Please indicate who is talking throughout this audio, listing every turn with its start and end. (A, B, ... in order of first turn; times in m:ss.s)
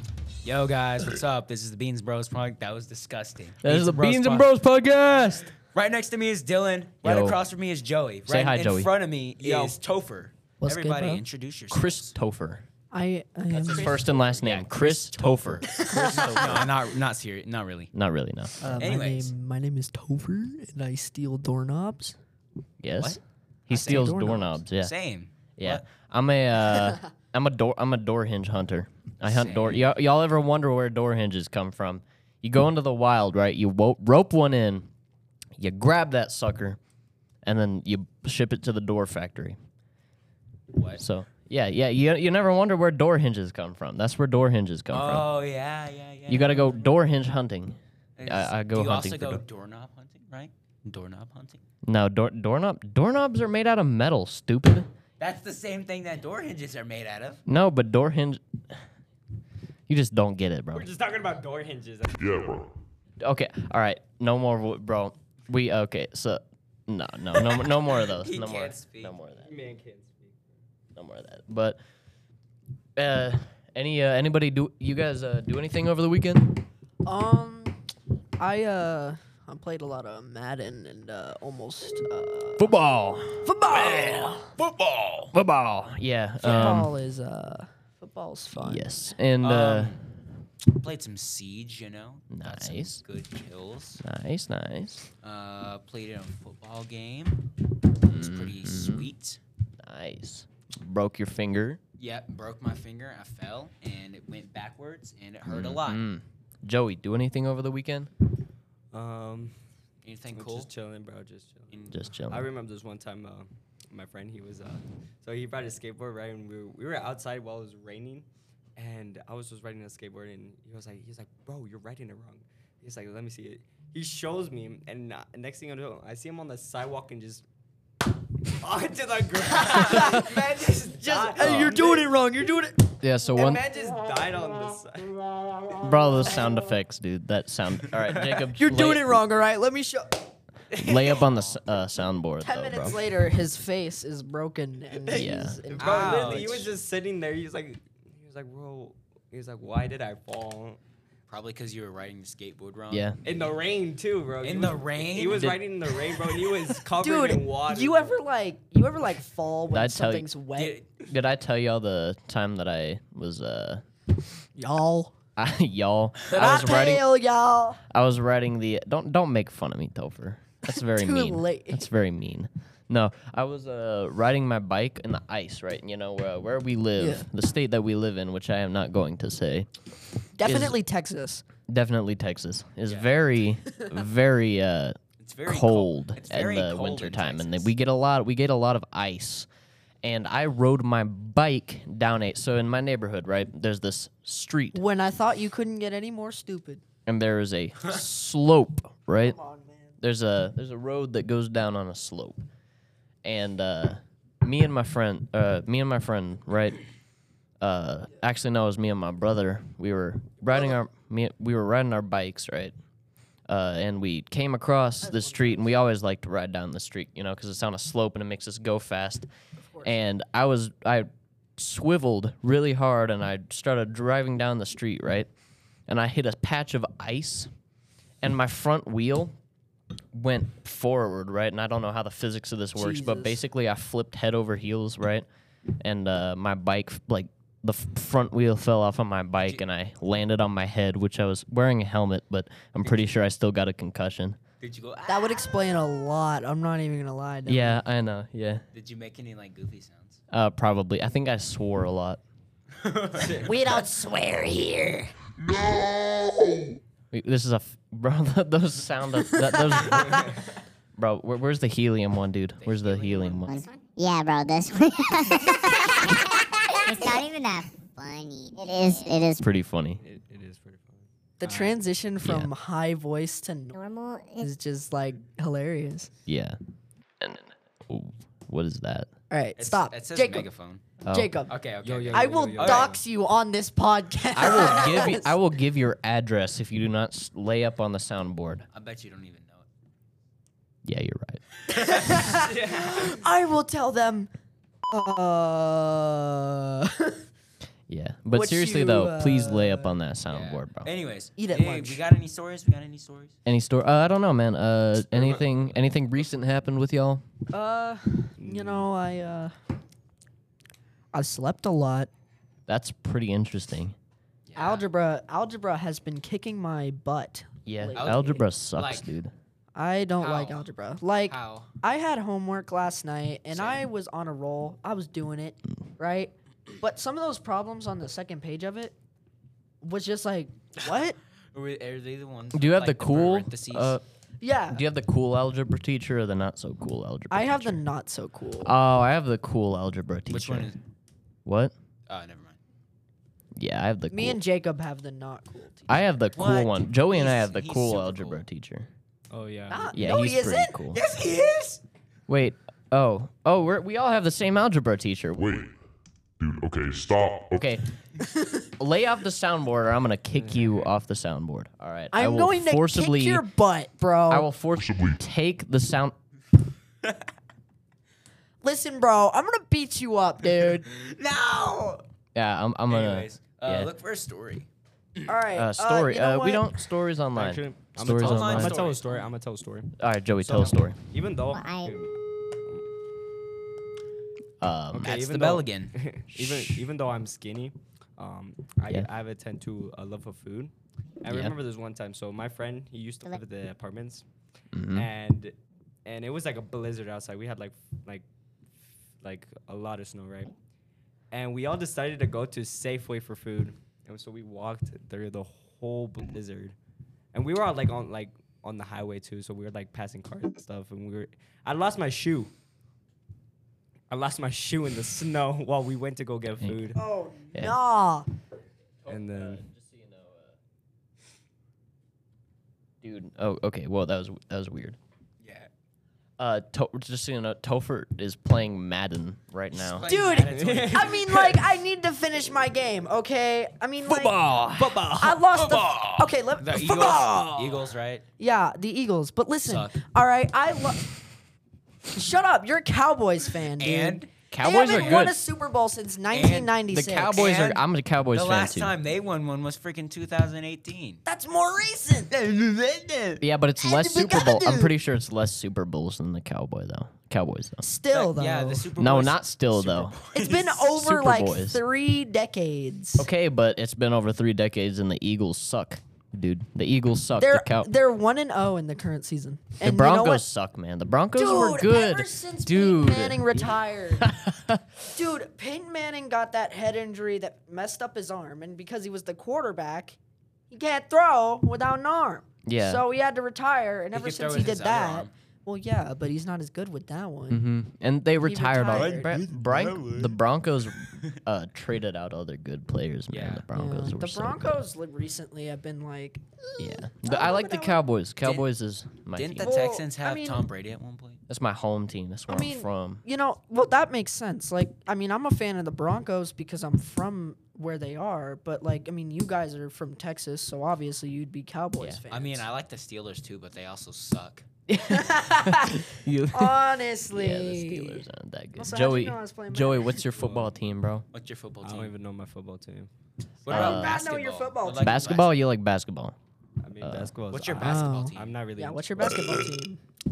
0:00.4-0:04.5 A
0:03.6-0:05.5 B
0:05.7-0:12.2 A
0:07.0-0:07.4 B
0:08.3-0:08.9 B
0:09.4-0:09.8 C
0:10.6-0:11.2 D
0:11.7-0:12.6 B
0:12.9-0:14.1 D
0:13.5-0:17.9 A
0:13.6-0:16.6 B
0:15.6-0:16.7 D
0:17.9-0:18.9 B
0:18.6-0:22.2 D
0:18.8-0:19.3 A
0:22.8-0:24.9 B
0:23.0-0:25.8 A
0:23.7-0:24.6 D
0:25.6-0:34.9 B
0:29.2-0:29.9 A
0:35.6-0:36.8 B
0:37.4-0:39.6 B
0:40.7-0:41.0 A
0:41.0-0:45.3 B
0:44.9-0:47.0 A
0:46.3-0:49.4 B
0:48.2-0:51.6 A
0:51.8-0:54.9 B
0:55.2-0:57.4 A
0:57.5-0:58.8 B
0:59.9-1:00.9 B
1:00.7-1:02.7 C
1:02.2-1:02.7 E
1:03.2-1:09.5 B
1:07.6-1:09.2 A
1:09.4-1:10.4 C
1:11.0-1:11.8 B
1:13.0-1:16.7 B
1:17.0-1:17.8 D
1:18.4-1:22.7 D
1:22.6-1:23.5 B
1:23.4-1:24.5 D
1:23.7-1:25.3 A
1:25.3-1:26.9 B
1:26.4-1:26.8 A
1:26.4-1:29.0 D
1:28.6-1:30.0 B
1:29.4-1:30.0 A
1:30.7-1:34.0 A
1:32.3-1:33.0 B
1:34.0-1:35.1 B
1:35.2-1:37.4 A
1:38.0-1:39.4 A
1:38.1-1:39.1 B
1:39.8-1:41.8 B
1:42.0-1:46.1 A
1:45.5-1:48.1 B
1:48.9-1:49.5 C
1:50.0-1:50.7 A
1:50.3-2:07.4 C
1:51.9-1:52.5 B
2:08.6-2:12.1 C
2:09.5-2:13.0 D
2:11.4-2:11.7 B
2:13.0-2:13.6 B
2:13.4-2:15.8 C
2:15.8-2:19.2 B
2:18.6-2:20.3 D
2:20.8-2:23.0 B
2:20.8-2:21.7 A
2:22.4-2:26.7 D
2:25.1-2:25.6 B
2:25.8-2:30.8 C
2:25.8-2:26.7 A
2:31.3-2:33.5 A
2:32.9-2:33.2 B
2:33.2-2:38.2 C
2:34.4-2:35.6 A
2:35.3-2:35.6 B
2:37.0-2:40.8 D
2:39.7-2:40.3 B
2:40.6-2:41.0 A
2:41.0-2:43.8 B
2:44.6-2:45.1 D
2:45.4-2:47.1 B
2:46.3-2:47.8 D
2:47.9-2:59.7 B
2:50.7-2:51.9 D
2:57.0-2:57.3 D
3:00.4-3:01.4 D
3:00.4-3:00.8 B
3:01.7-3:09.5 B
3:02.9-3:03.2 A
3:05.2-3:07.7 A
3:10.0-3:14.8 B
3:14.8-3:16.8 D
3:17.1-3:19.4 B
3:19.2-3:19.9 D
3:20.0-3:22.4 B
3:23.2-3:26.8 B
3:27.6-3:32.7 B
3:30.5-3:30.8 D
3:33.5-3:39.3 B
3:35.0-3:35.7 D
3:39.6-3:40.0 D
3:39.8-3:45.3 B
3:45.9-3:47.5 B
3:48.2-3:49.3 B
3:50.2-3:55.3 B
3:52.8-3:53.4 D
3:55.8-4:04.4 B
3:59.4-3:59.6 A
4:04.6-4:05.6 A
4:05.1-4:07.8 D
4:07.5-4:08.6 B
4:08.7-4:10.2 A
4:10.3-4:12.2 B
4:12.8-4:13.4 A
4:13.2-4:13.5 C
4:13.4-4:15.1 D
4:17.1-4:20.3 B
4:19.7-4:20.2 D
4:21.0-4:23.6 B
4:22.6-4:23.5 A
4:23.5-4:29.4 F
4:29.4-4:30.0 B
4:30.0-4:31.8 C
4:31.4-4:33.8 D
4:32.2-4:32.5 B
4:33.7-4:34.5 F
4:34.4-4:36.1 D
4:36.3-4:36.6 B
4:37.2-4:39.1 B
4:39.3-4:40.5 D
4:39.6-4:40.8 A
4:41.0-4:41.4 B
4:41.1-4:41.6 D
4:41.5-4:43.0 A
4:41.8-4:43.0 C
4:42.1-4:45.4 D
4:44.4-4:48.7 B
4:48.7-4:49.7 A
4:50.8-4:51.4 B
4:51.8-4:54.3 D
4:52.4-4:53.1 C
4:54.9-4:57.2 D
4:57.9-5:00.9 B
4:58.3-5:00.0 D
5:00.3-5:03.4 A
5:01.4-5:02.0 D
5:03.5-5:07.2 B
5:07.5-5:09.5 D
5:08.4-5:08.9 C
5:11.1-5:12.1 D
5:12.7-5:14.0 B
5:14.5-5:14.8 A
5:14.6-5:18.4 D
5:17.7-5:19.3 B
5:18.0-5:19.1 A
5:19.8-5:29.0 D
5:20.2-5:20.7 A
5:21.3-5:21.7 A
5:23.5-5:23.8 A
5:29.8-5:31.2 D
5:31.5-5:34.0 A
5:32.5-5:34.0 B
5:34.4-5:34.8 D
5:34.7-5:37.8 B
5:37.3-5:38.8 D
5:38.6-5:40.7 B
5:40.3-5:40.8 A
5:41.5-5:41.7 B
5:42.1-5:42.6 A
5:43.6-5:44.4 B
5:44.1-5:46.1 D
5:45.9-5:48.9 B
5:46.4-5:48.4 A
5:49.3-5:49.9 C
5:49.7-5:50.8 D
5:49.9-5:51.0 B
5:50.9-5:51.8 A
5:52.3-5:55.7 B
5:55.4-5:55.7 E
5:56.4-5:57.6 E
5:57.5-5:57.9 B
5:58.8-6:03.4 B
6:00.3-6:00.9 C
6:02.1-6:04.5 D
6:04.3-6:06.1 B
6:04.8-6:05.2 E
6:08.6-6:10.8 D
6:10.6-6:12.0 A
6:12.4-6:13.9 B
6:12.9-6:14.7 A
6:15.3-6:16.7 D
6:15.5-6:18.8 B
6:17.3-6:22.1 C
6:18.1-6:19.3 A
6:20.0-6:21.0 B
6:21.5-6:21.9 F
6:24.6-6:25.2 B
6:24.9-6:34.3 C
6:25.1-6:26.0 A
6:31.3-6:31.5 B
6:34.7-6:35.1 B
6:34.9-6:38.3 C
6:39.2-6:40.5 C
6:41.3-6:46.8 C
6:47.3-6:52.5 C
6:54.1-6:57.0 C
6:57.0-6:58.3 D
6:59.0-7:00.6 B
6:59.1-6:59.6 C
7:03.0-7:05.0 B
7:05.4-7:05.7 A
7:06.4-7:10.1 B
7:09.7-7:11.1 A
7:10.0-7:14.4 D
7:10.5-7:11.6 C
7:14.1-7:15.0 B
7:14.7-7:15.6 C
7:15.2-7:17.8 D
7:15.6-7:18.2 A
7:18.4-7:21.1 D
7:19.6-7:19.9 A
7:22.1-7:27.4 D
7:23.8-7:24.3 A
7:24.5-7:25.4 B
7:26.3-7:31.2 A
7:26.9-7:29.0 B
7:31.2-7:32.3 D
7:32.3-7:33.4 A
7:33.4-7:37.8 B
7:33.8-7:35.0 D
7:37.8-7:38.9 D
7:38.1-7:40.8 A
7:39.0-7:40.1 B
7:40.3-7:43.3 D
7:40.8-7:41.8 B
7:43.2-7:47.9 B
7:47.3-7:50.4 D
7:49.8-7:53.5 B
7:51.4-7:54.3 D
7:54.2-7:54.8 B
7:55.1-8:00.2 D
8:00.7-8:07.6 D
8:02.6-8:03.0 B
8:04.1-8:05.3 A
8:07.5-8:14.8 B
8:08.4-8:09.3 D
8:08.9-8:10.3 A
8:13.3-8:13.6 A
8:13.7-8:18.0 D
8:16.8-8:19.7 B
8:18.4-8:18.7 A
8:19.4-8:21.4 A
8:19.6-8:20.7 D
8:21.5-8:23.2 B
8:22.5-8:32.7 D
8:32.3-8:34.7 A
8:34.9-8:41.3 B
8:35.1-8:38.2 D
8:38.8-8:40.2 D
8:40.4-8:40.7 C
8:41.3-8:42.1 A
8:41.8-8:43.1 C
8:43.6-8:45.6 A
8:43.7-8:45.4 D
8:43.7-8:44.2 B
8:45.0-8:46.4 B
8:46.8-8:49.5 C
8:47.0-8:47.3 B
8:47.5-8:48.6 A
8:47.8-8:50.0 D